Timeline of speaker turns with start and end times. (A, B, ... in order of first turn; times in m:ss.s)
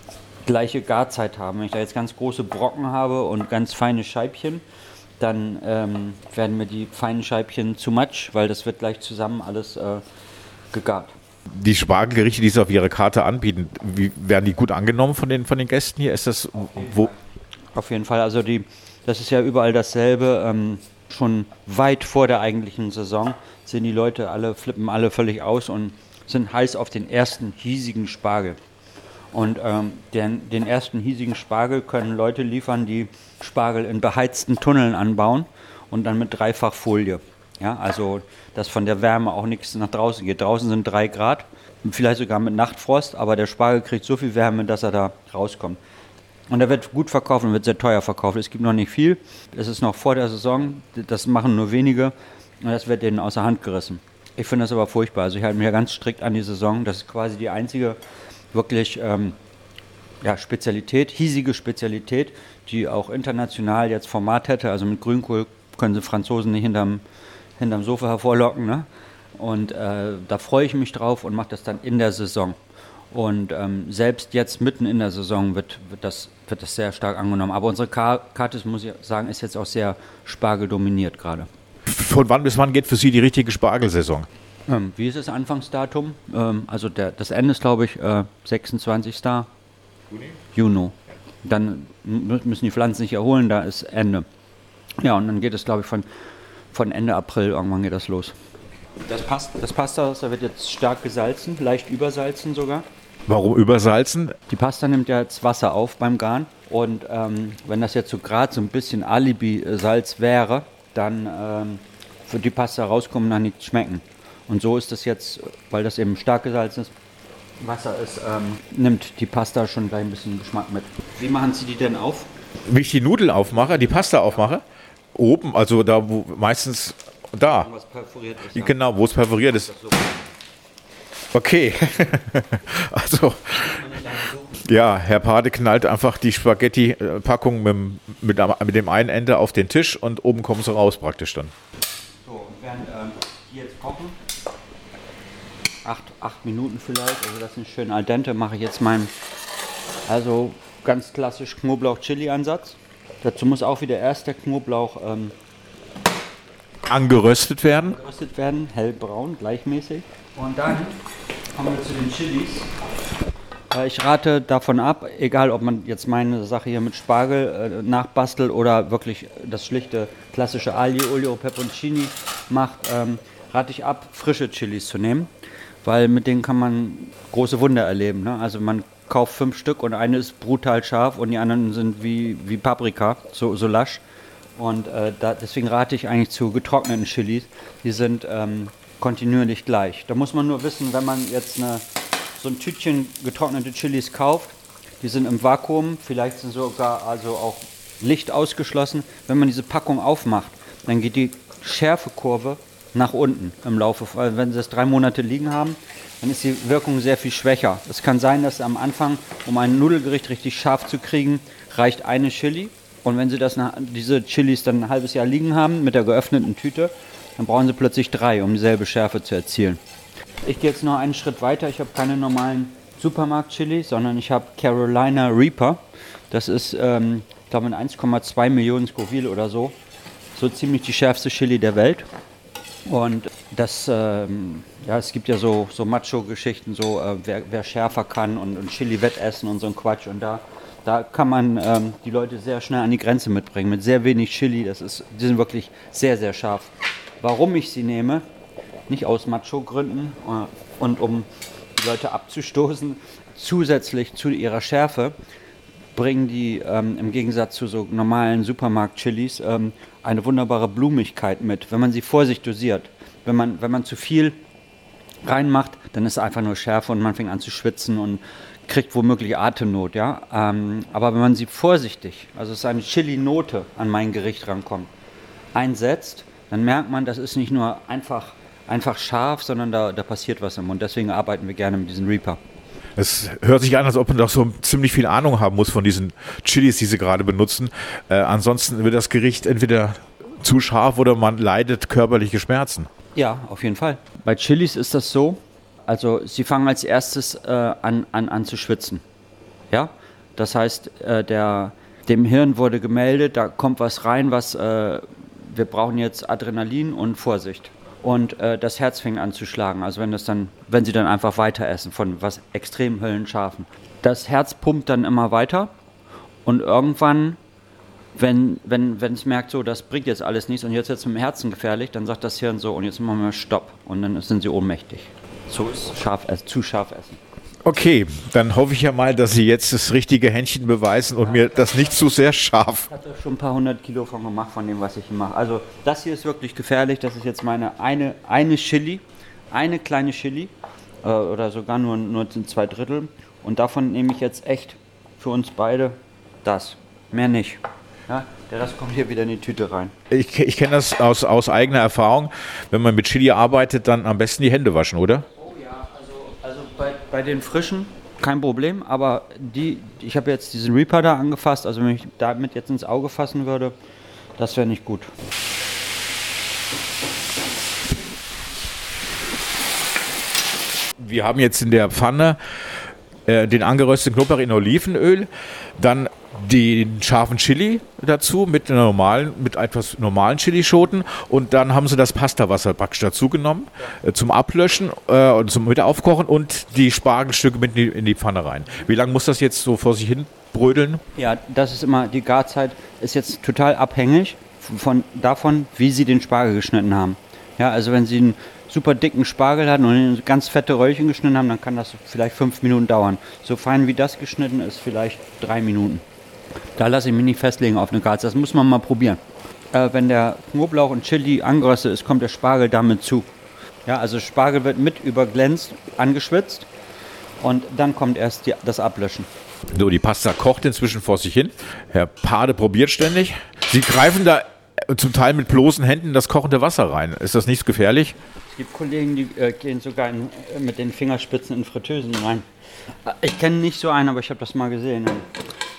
0:00.4-0:04.6 A
0:05.2-0:10.0 A
0:10.7-0:11.2 A
0:11.5-0:17.1 B
0:16.7-0:17.2 A
0:17.7-0:28.6 A
0:29.3-0:45.8 A
0:46.5-0:58.0 A
0:58.5-0:59.4 A
1:00.2-1:07.0 A
1:07.6-1:12.6 A
1:13.1-1:21.5 A
1:21.9-1:24.3 B
1:24.7-1:29.5 A
1:30.5-1:34.3 A
1:35.0-1:36.1 A
1:36.7-1:38.4 A
1:39.0-1:42.9 A
1:43.3-1:44.4 B
1:44.5-1:56.9 A
1:57.6-2:02.3 A
2:02.6-2:04.6 B
2:05.1-2:07.7 B
2:07.5-2:08.9 A
2:08.5-2:09.7 B
2:09.5-2:10.3 A
2:11.3-2:13.8 B
2:13.6-2:14.6 A
2:14.6-2:21.5 B
2:22.2-2:24.2 A
2:25.8-2:29.1 A
2:30.1-2:35.4 A
2:36.9-2:38.0 B
2:37.9-2:41.0 A
2:41.5-2:42.7 A
2:43.7-2:55.3 A
2:55.8-3:04.0 A
3:04.6-3:11.8 A
3:12.4-3:39.8 A
3:40.4-3:49.8 A
3:50.4-3:52.1 A
3:52.9-4:08.2 A
4:08.9-4:15.2 A
4:16.0-4:24.4 A
4:25.2-4:34.9 A
4:35.6-4:42.4 A
4:43.0-4:52.9 B
4:53.2-4:59.0 A
4:59.7-5:15.7 A
5:16.4-5:17.4 A
5:18.2-5:27.2 A
5:27.6-5:32.9 B
5:31.3-5:31.7 A
5:32.9-5:49.9 A
5:50.1-5:55.3 B
5:55.4-6:03.8 A
6:04.4-6:05.1 A
6:11.0-6:31.0 B
6:31.2-6:46.0 A
6:46.8-6:49.2 A
6:49.7-6:53.3 A
6:53.9-6:56.7 A
6:57.4-6:59.3 A
6:59.7-7:08.2 B
7:08.5-7:12.5 A
7:13.0-7:15.4 A